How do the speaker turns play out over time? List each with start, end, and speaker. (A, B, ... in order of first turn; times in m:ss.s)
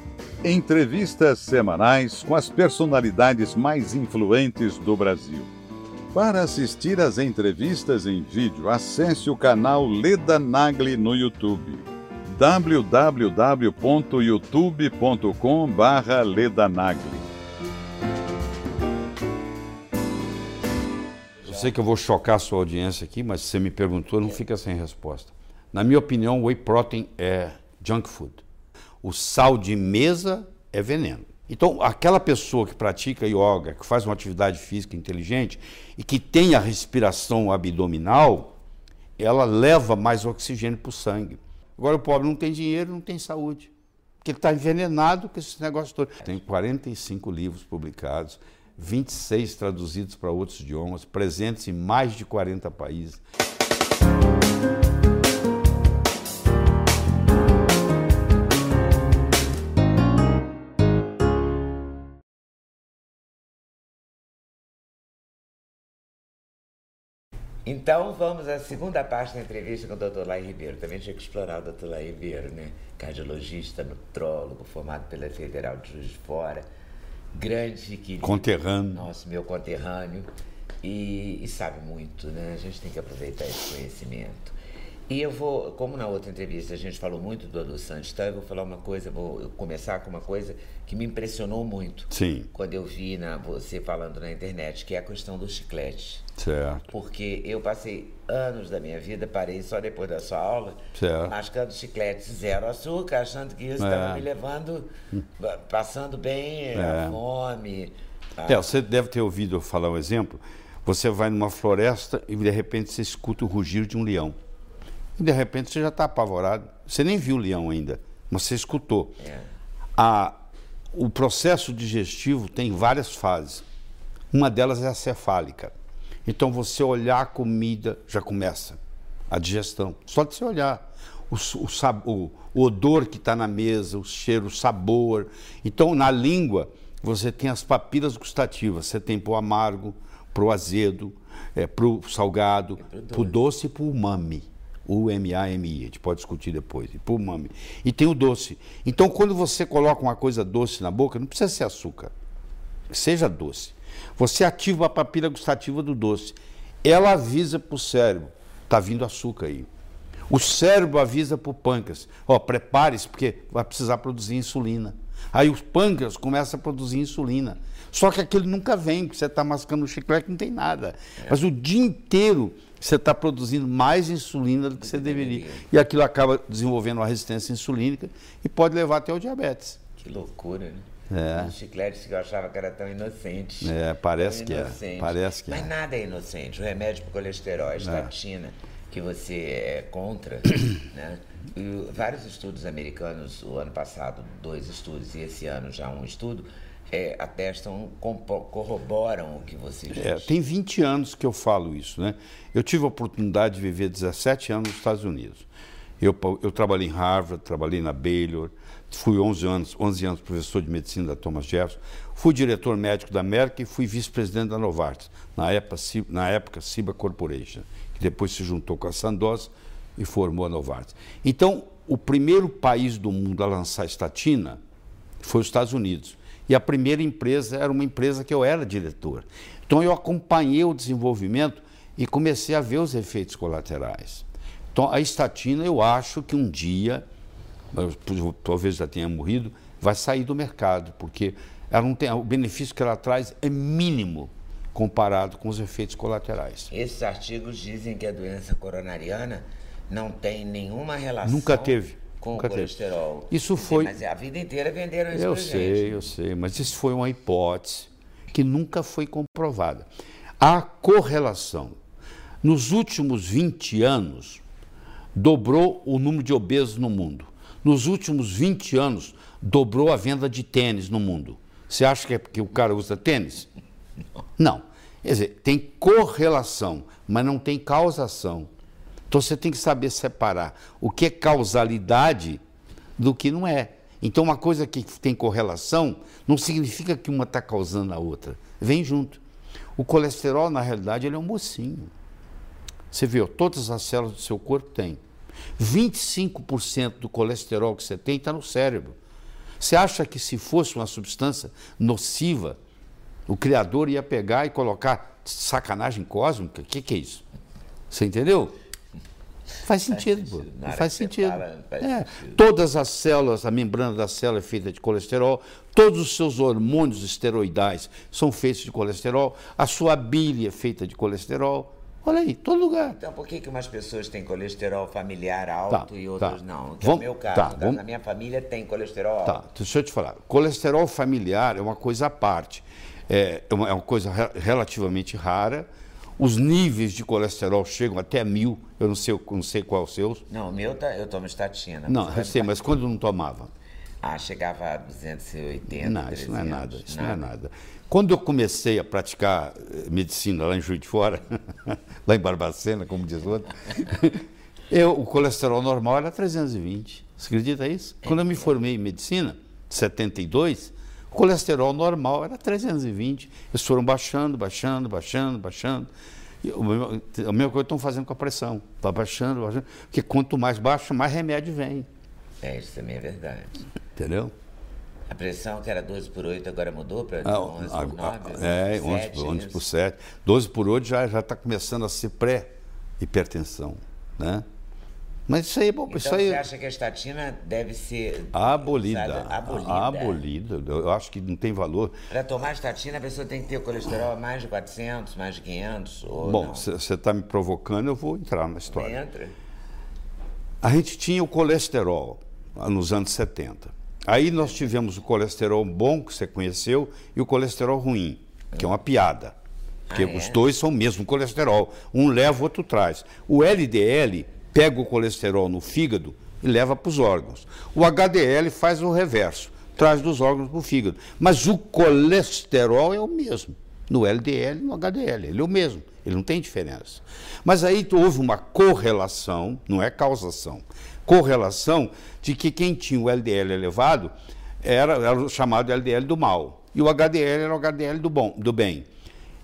0:00.4-0:05.5 A
0:06.1-0:17.3 A
0:21.4-0:28.4 B
0:29.0-0:38.5 B
0:39.2-0:53.2 B
1:07.6-1:16.6 C
1:17.3-1:20.3 C
1:18.2-1:19.0 B
1:20.8-1:24.6 C
1:25.1-1:36.3 C
1:32.1-1:32.5 B
1:36.4-1:36.9 B
1:36.9-1:48.7 C
1:41.0-1:41.3 B
1:43.8-1:44.2 B
1:46.7-1:47.2 B
1:48.4-1:54.4 B
1:55.2-1:59.2 B
1:59.2-1:59.5 C
2:00.0-2:00.4 B
2:00.9-2:03.6 B
2:04.3-2:05.7 B
2:06.2-2:08.8 B
2:09.3-2:32.1 B
2:22.8-2:23.4 C
2:32.9-2:39.7 B
2:40.3-2:59.8 B
2:54.8-2:55.6 C
3:00.0-3:20.3 C
3:01.1-3:01.5 B
3:03.6-3:05.7 B
3:07.8-3:08.1 B
3:19.9-3:25.4 B
3:26.0-3:44.6 B
3:45.2-3:57.0 B
3:57.7-4:06.7 B
4:06.7-4:16.1 C
4:11.2-4:12.7 B
4:13.3-4:13.9 B
4:15.1-4:19.9 B
4:20.4-4:21.8 B
4:22.4-4:24.4 B
4:25.1-4:33.5 B
4:34.4-4:38.5 B
4:39.1-4:42.4 B
4:43.0-4:49.2 B
4:49.8-4:51.9 B
4:52.9-4:55.0 B
4:55.6-4:59.0 B
4:59.6-5:02.6 B
5:03.3-5:07.2 B
5:07.9-5:08.5 B
5:09.6-5:23.0 B
5:09.9-5:12.4 C
5:22.8-5:29.4 C
5:25.7-5:27.8 B
5:29.2-5:40.2 B
5:40.3-5:42.6 C
5:41.9-5:43.5 B
5:44.0-5:47.3 C
5:45.7-6:05.9 B
6:06.4-6:11.9 B
6:12.4-6:13.5 C
6:14.0-6:14.3 B
6:15.1-6:19.6 C
6:17.2-6:24.4 B
6:25.3-6:26.4 B
6:25.9-6:30.2 C
6:28.3-6:32.0 B
6:32.1-6:36.7 C
6:36.2-6:39.0 B
6:38.7-6:39.3 C
6:40.6-6:49.3 B
6:49.9-6:50.4 C
6:49.9-7:18.9 B